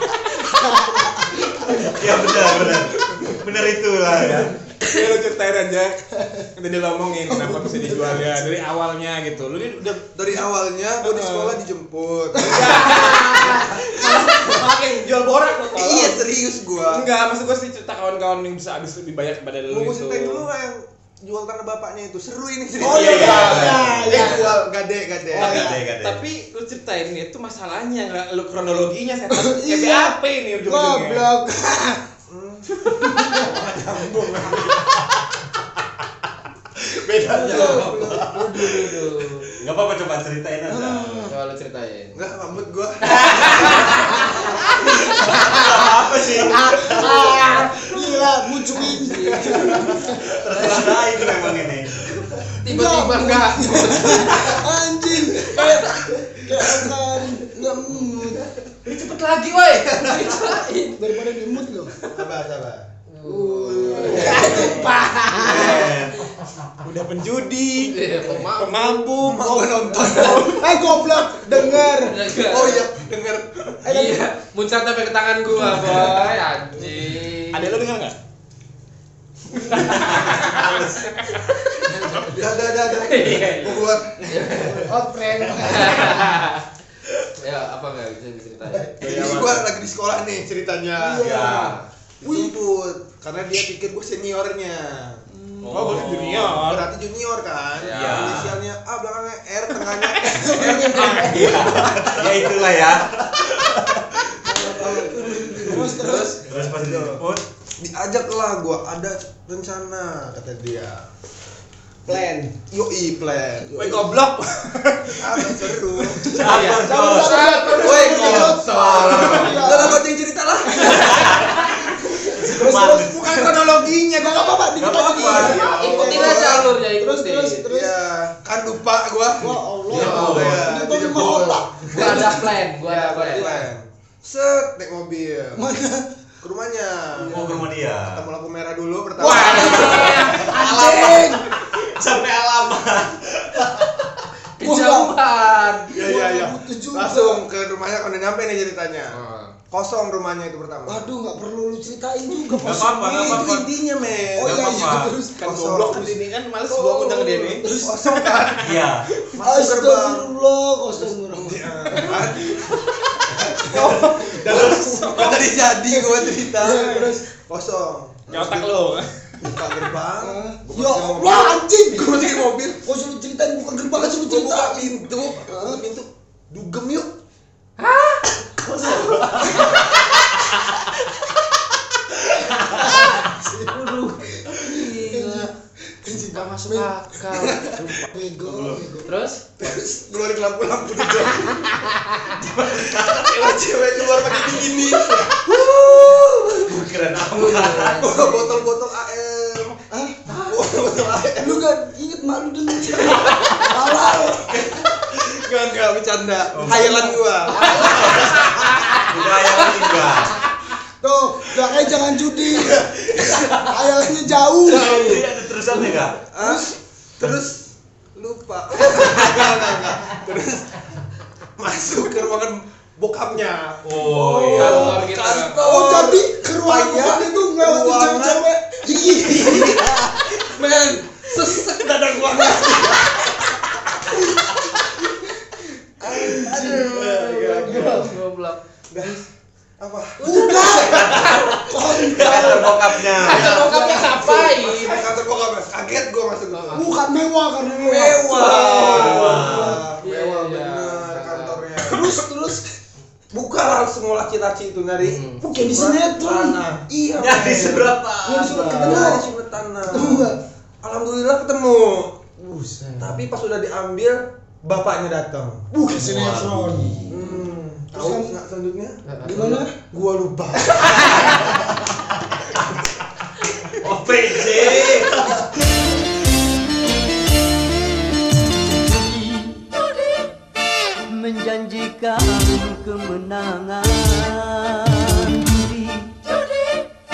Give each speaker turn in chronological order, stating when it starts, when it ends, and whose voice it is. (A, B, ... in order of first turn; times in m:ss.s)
0:00.4-0:01.5 A
0:01.7-0:04.6 B
0:04.8-0:06.0 C
0:06.5-0:10.0 C
0:07.3-0:08.4 A
0:10.0-0:13.3 D
0:11.1-0:11.6 C
0:12.4-0:14.2 A
0:12.4-0:16.3 C
0:15.7-0:17.0 D
0:16.8-0:20.4 C
0:19.7-0:25.8 D
0:22.8-0:24.6 A
0:22.8-0:23.8 C
0:22.9-0:24.2 B
0:23.1-0:24.5 E
0:25.3-0:26.2 B
0:25.3-0:31.3 C
0:29.3-0:32.0 A
0:32.3-0:35.1 D
0:33.0-0:33.7 A
0:36.9-0:39.2 D
0:37.1-0:38.4 B
0:37.3-0:39.0 A
0:38.4-0:39.4 E
0:39.6-0:41.3 B
0:40.7-0:41.3 A
0:41.2-0:42.3 E
0:42.1-0:43.9 D
0:43.0-0:45.9 E
0:43.3-0:44.2 B
0:45.0-0:47.7 B
0:46.5-0:50.2 A
0:46.7-0:47.9 E
0:48.8-0:49.9 E
0:49.8-0:52.5 B
0:50.6-0:50.9 E
0:52.6-0:54.6 E
0:52.6-0:58.4 A
0:55.4-0:57.0 D
0:58.8-1:01.0 E
0:59.7-1:00.6 D
1:01.0-1:01.9 A
1:02.1-1:02.8 D
1:03.1-1:06.2 E
1:03.2-1:05.9 A
1:03.8-1:04.6 D
1:05.3-1:06.3 B
1:06.8-1:10.7 C
1:07.8-1:08.9 E
1:09.2-1:10.6 D
1:09.9-1:12.2 A
1:11.7-1:12.9 E
1:12.4-1:14.1 D
1:13.8-1:17.8 E
1:13.9-1:14.2 A
1:15.6-1:16.2 A
1:17.5-1:18.1 C
1:19.6-1:22.0 C
1:19.6-1:20.9 E
1:21.7-1:24.9 E
1:22.0-1:22.4 A
1:22.1-1:24.8 D
1:24.5-1:26.4 A
1:25.6-1:26.6 E
1:27.4-1:29.1 E
1:28.7-1:31.4 D
1:29.0-1:29.6 C
1:31.0-1:32.6 A
1:31.2-1:31.8 B
1:31.2-1:31.9 E
1:32.2-1:35.2 D
1:35.3-1:36.2 A
1:35.6-1:36.3 B
1:35.7-1:36.9 C
1:35.8-1:41.0 D
1:37.8-1:38.5 E
1:37.9-1:38.6 B
1:40.1-1:42.3 A
1:40.4-1:41.6 C
1:41.2-1:44.0 B
1:41.7-1:43.0 D
1:44.4-1:46.5 A
1:44.5-1:47.2 D
1:45.8-1:46.4 E
1:46.5-1:47.4 B
1:47.8-1:51.0 D
1:52.0-1:52.5 A
1:52.7-1:53.7 D
1:53.7-1:54.1 A
1:53.7-1:56.2 C
1:55.2-1:56.6 D
1:56.2-2:00.0 B
1:56.4-1:59.5 E
1:56.6-2:00.0 A
1:57.9-2:01.5 D
2:00.8-2:01.5 E
2:00.9-2:03.8 B
2:02.4-2:08.0 A
2:03.2-2:05.1 C
2:04.8-2:05.7 B
2:05.1-2:06.7 D
2:05.4-2:07.6 E
2:07.7-2:15.7 D
2:09.4-2:12.5 A
2:09.9-2:11.2 B
2:10.0-2:10.4 E
2:11.9-2:13.7 E
2:15.5-2:16.1 A
2:16.4-2:21.4 D
2:17.3-2:18.3 B
2:19.2-2:20.9 E
2:19.2-2:21.6 A
2:20.6-2:24.2 B
2:24.6-2:25.9 E
2:24.6-2:25.2 A
2:25.9-2:27.5 A
2:25.9-2:29.2 D
2:29.1-2:29.6 E
2:29.7-2:31.1 D
2:30.8-2:33.7 A
2:32.4-2:36.2 D
2:32.6-2:33.7 B
2:34.4-2:35.4 A
2:34.4-2:35.2 B
2:35.3-2:38.6 C
2:36.7-2:38.2 A
2:37.7-2:40.3 D
2:38.6-2:39.1 B
2:39.4-2:42.5 A
2:41.0-2:52.8 D
2:43.3-2:45.3 A
2:43.7-2:45.5 C
2:44.5-2:44.9 B
2:45.8-2:47.3 A
2:46.6-2:47.1 C
2:48.3-2:49.1 C
2:50.2-2:55.8 A
2:53.9-2:57.1 D
2:57.8-2:59.0 E
2:58.7-2:59.6 B
2:58.8-3:00.0 D
2:59.6-3:00.9 E
3:02.5-3:02.9 B
3:02.5-3:07.4 A
3:03.7-3:05.5 E
3:06.2-3:08.1 E
3:08.0-3:09.1 A
3:08.4-3:08.9 B
3:09.0-3:09.4 E
3:09.6-3:16.2 D
3:11.5-3:12.4 E
3:12.6-3:13.5 B
3:15.1-3:18.1 B
3:17.3-3:18.7 E
3:17.9-3:21.6 D
3:19.9-3:20.2 A
3:21.4-3:24.6 A
3:24.5-3:28.7 D
3:26.5-3:27.0 B
3:26.6-3:27.4 A
3:27.7-3:30.4 B
3:27.8-3:29.9 E
3:31.0-3:35.2 A
3:33.3-3:33.7 B
3:34.6-3:36.2 B
3:34.8-3:35.2 D
3:36.2-3:40.8 D
3:36.4-3:36.7 A
3:41.6-3:53.3 D
3:43.8-3:45.1 B
3:44.3-3:45.6 E
3:44.5-3:44.9 A
3:45.4-3:53.2 A
3:55.1-3:58.2 A
3:56.0-3:58.2 D
3:57.4-3:58.6 E
3:58.9-3:59.2 D
3:59.8-4:06.9 D
4:00.2-4:04.4 A
4:00.9-4:03.8 B
4:03.1-4:05.1 E
4:06.5-4:06.9 E
4:06.7-4:09.8 A
4:07.8-4:12.1 D
4:08.3-4:09.8 B
4:08.4-4:11.7 E
4:11.8-4:12.7 A
4:13.3-4:22.2 D
4:15.0-4:15.4 E
4:15.4-4:16.6 A
4:17.2-4:19.1 B
4:18.2-4:19.2 A
4:19.9-4:20.4 A
4:22.4-4:23.2 A
4:23.0-4:25.7 D
4:25.7-4:27.3 A
4:25.9-4:27.2 B
4:27.1-4:29.0 D
4:27.9-4:28.4 A
4:29.0-4:29.6 E
4:29.2-4:29.7 A
4:29.8-4:31.6 D
4:30.9-4:31.5 E
4:33.8-4:35.9 B
4:34.7-4:35.0 D
4:38.4-4:40.1 F
4:41.1-4:46.8 F